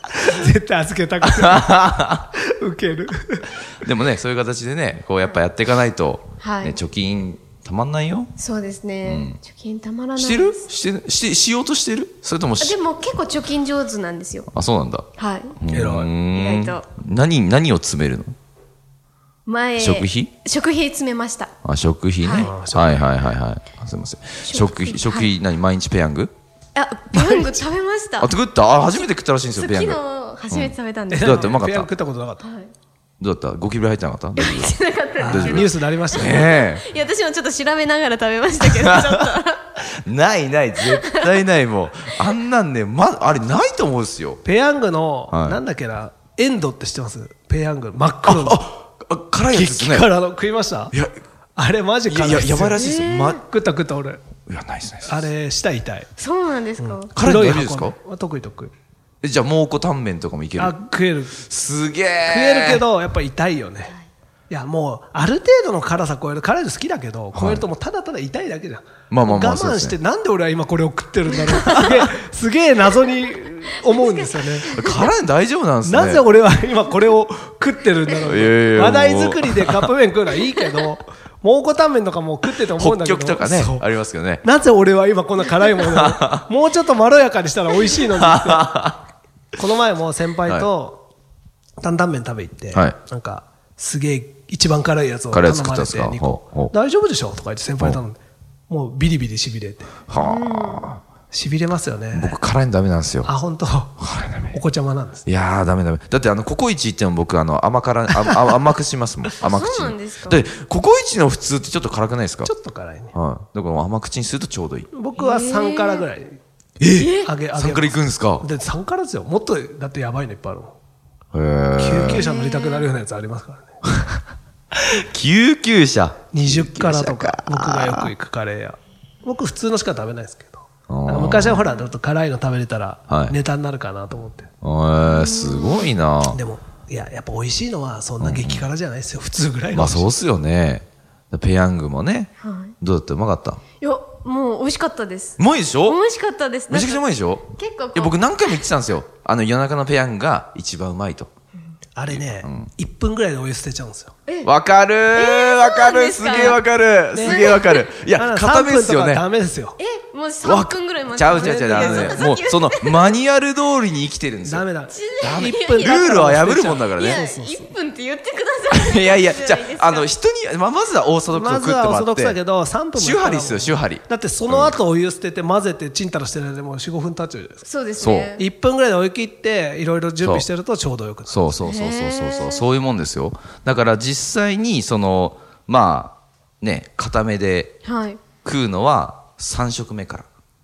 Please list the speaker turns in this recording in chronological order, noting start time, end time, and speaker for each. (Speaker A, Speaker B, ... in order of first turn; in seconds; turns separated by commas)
Speaker A: 0.2-3.5, Speaker B: 1.2-2.2, Speaker B: 3.8-8.3, Speaker C: 6.4-6.8, Speaker C: 8.4-10.7, Speaker B: 9.0-9.4, Speaker B: 10.2-12.8, Speaker C: 12.6-14.5, Speaker B: 14.5-15.1, Speaker C: 15.2-15.6, Speaker B: 15.6-18.3, Speaker A: 15.7-16.1, Speaker C: 16.3-16.9, Speaker C: 19.4-21.5, Speaker B: 19.8-20.3, Speaker B: 21.6-26.3, Speaker C: 22.2-22.5, Speaker A: 22.3-23.0, Speaker C: 24.4-25.3, Speaker C: 26.7-28.3, Speaker B: 28.2-31.9, Speaker C: 28.8-31.5, Speaker A: 31.1-32.4, Speaker C: 32.4-32.7, Speaker B: 33.2-36.8, Speaker C: 34.4-39.7, Speaker A: 35.2-36.5, Speaker B: 38.7-44.4, Speaker C: 41.0-41.2, Speaker A: 44.4-48.6, Speaker B: 45.3-45.6, Speaker B: 48.2-50.1, Speaker A: 49.5-50.9, Speaker A: 51.5-54.2, Speaker B: 52.1-53.4, Speaker C: 52.8-53.4, Speaker B: 54.5-55.3, Speaker A: 55.0-56.1, Speaker C: 56.2-57.1, Speaker A: 56.8-58.7, Speaker B: 57.1-58.0, Speaker B: 59.2-60.8, Speaker A: 60.5-61.4, Speaker B: 61.4-62.8, Speaker A: 62.2-64.0, Speaker A: 64.5-74.7, Speaker B: 67.3-67.6, Speaker B: 69.1-70.0, Speaker C: 73.8-75.1, Speaker B: 74.7-76.2, Speaker A: 75.8-83.8, Speaker B: 78.2-79.9, Speaker B: 82.6-84.4, Speaker A: 84.4-88.7, Speaker B: 85.8-86.4, Speaker B: 87.9-89.0, Speaker A: 89.5-91.0, Speaker A: 91.8-100.0, Speaker B: 95.3-96.7, Speaker B: 100.1-101.0, Speaker C: 100.1-100.9, Speaker A: 101.3-102.4, Speaker B: 102.1-103.3, Speaker A: 103.2-104.0, Speaker B: 104.0-104.6, Speaker A: 104.5-105.2, Speaker B: 105.2-112.5, Speaker A: 108.2-108.5, Speaker C: 109.4-110.4, Speaker A: 112.4-113.1, Speaker B: 113.1-114.9, Speaker A: 114.9-116.4, Speaker C: 115.2-116.1, Speaker B: 116.8-118.5, Speaker C: 116.9-117.3, Speaker A: 117.2-120.8, Speaker B: 121.3-122.2, Speaker A: 121.8-123.8, Speaker C: 122.1-122.9, Speaker B: 124.7-128.1, Speaker A: 126.3-134.5, Speaker B: 130.9-131.6, Speaker B: 133.1-133.3, Speaker B: 134.6-136.4, Speaker C: 135.1-135.9, Speaker A: 136.3-140.1, Speaker B: 138.2-138.7, Speaker B: 139.7-143.6, Speaker C: 142.4-142.7, Speaker C: 143.8-148.6, Speaker B: 145.4-146.0, Speaker B: 146.7-151.3, Speaker A: 151.9-154.1, Speaker B: 152.1-152.7, Speaker B: 154.4-159.2, Speaker C: 155.1-156.6, Speaker A: 157.1-159.8, Speaker C: 157.2-157.8, Speaker C: 159.8-163.2, Speaker B: 160.4-164.7, Speaker A: 161.3-162.4, Speaker A: 164.4-167.7, Speaker C: 164.9-166.3, Speaker B: 165.2-167.2, Speaker C: 166.9-170.1, Speaker B: 168.7-172.4, Speaker A: 171.3-177.6, Speaker B: 172.9-174.8, Speaker C: 177.6-178.4, Speaker B: 178.0-178.3, Speaker A: 178.4-181.4, Speaker B: 180.2-180.5, Speaker B: 181.3-187.8, Speaker C: 181.6-182.7, Speaker C: 187.8-188.2, Speaker B: 188.4-190.3